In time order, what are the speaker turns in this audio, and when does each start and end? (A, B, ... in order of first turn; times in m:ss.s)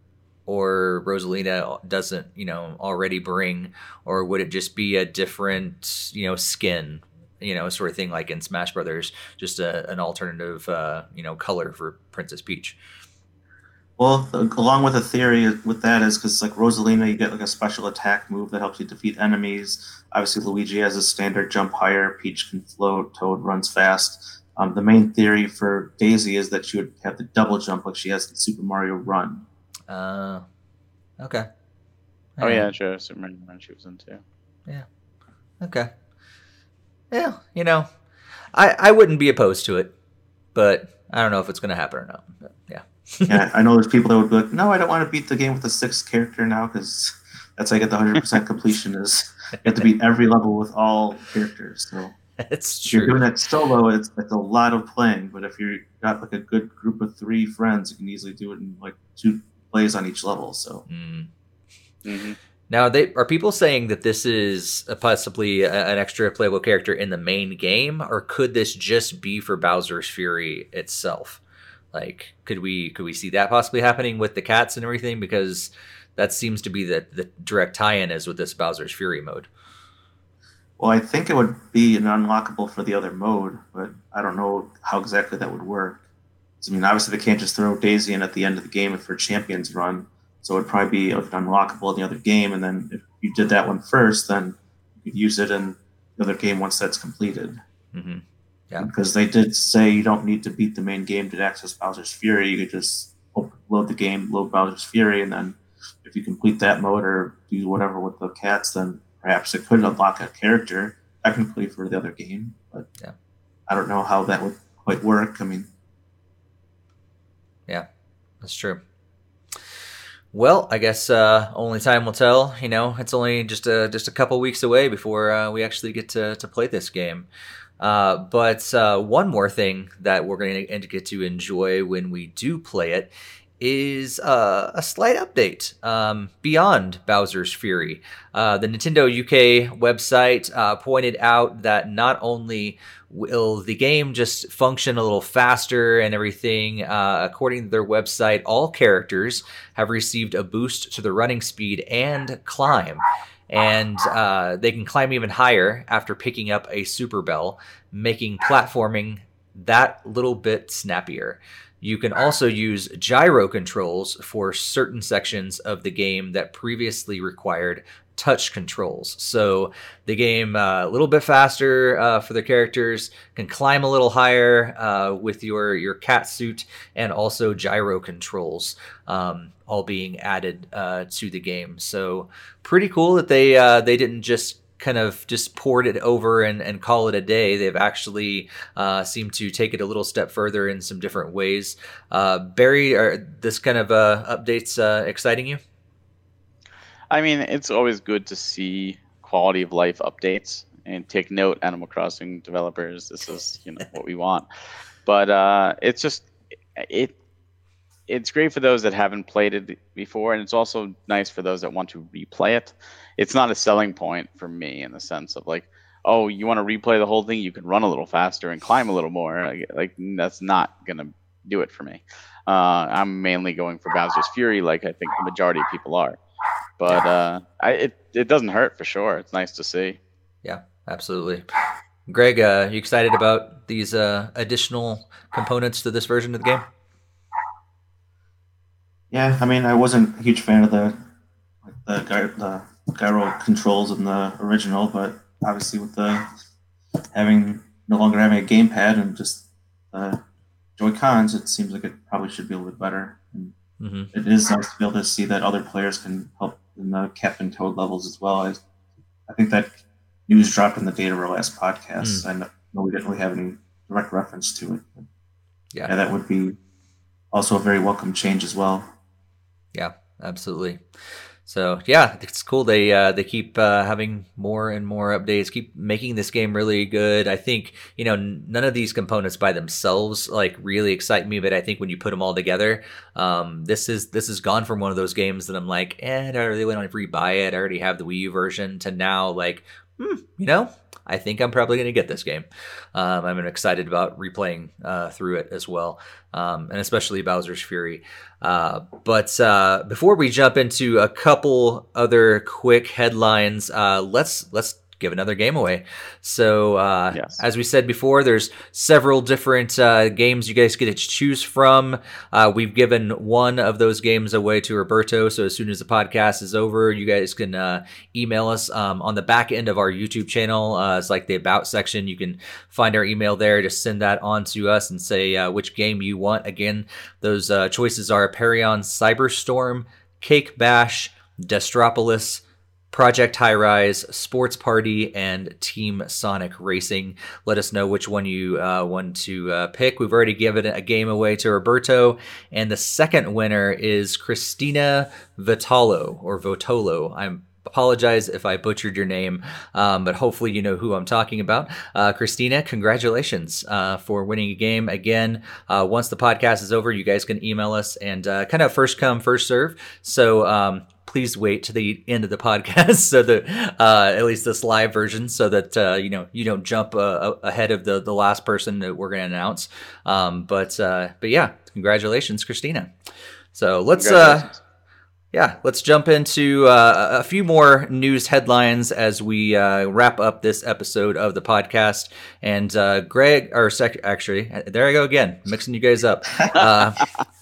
0:00.5-0:12.8 A
0:14.0-0:29.4 B
0:29.9-0:30.4 A
0:31.2-0:31.5 A
0:32.4-0:32.7 A
0:32.4-0:34.2 C
0:35.6-0:35.9 A
0:37.1-0:37.9 A
0:38.5-0:39.9 A
0:40.5-0:43.4 A
0:43.3-0:52.2 B
0:52.4-0:53.3 A
0:52.9-1:00.8 B
1:00.9-1:01.3 A
1:02.0-1:02.4 C
1:02.7-1:11.4 A
1:11.9-1:19.5 A
1:20.8-1:26.0 B
1:26.6-1:37.6 B
1:37.9-1:38.9 A
1:38.8-1:52.9 B
1:53.7-1:55.7 B
1:58.4-1:58.8 A
2:00.3-2:07.3 A
2:07.8-3:15.6 A
3:17.1-3:24.5 C
3:25.0-3:27.1 C
3:28.1-3:46.2 C
3:46.8-3:50.0 C
3:50.4-3:51.4 A
3:52.1-3:56.6 A
3:59.1-4:01.0 B
4:01.6-4:06.3 B
4:07.1-4:10.2 B
4:10.8-4:13.5 B
4:13.8-4:14.1 A
4:14.1-4:18.6 B
4:19.3-4:25.1 B
4:22.0-4:22.3 A
4:25.9-4:26.6 B
4:27.3-4:28.9 B
4:29.7-4:30.8 A
4:31.4-6:12.9 A
5:07.1-5:07.4 C
6:13.5-6:14.5 A
6:14.0-6:14.6 C
6:15.3-6:27.0 A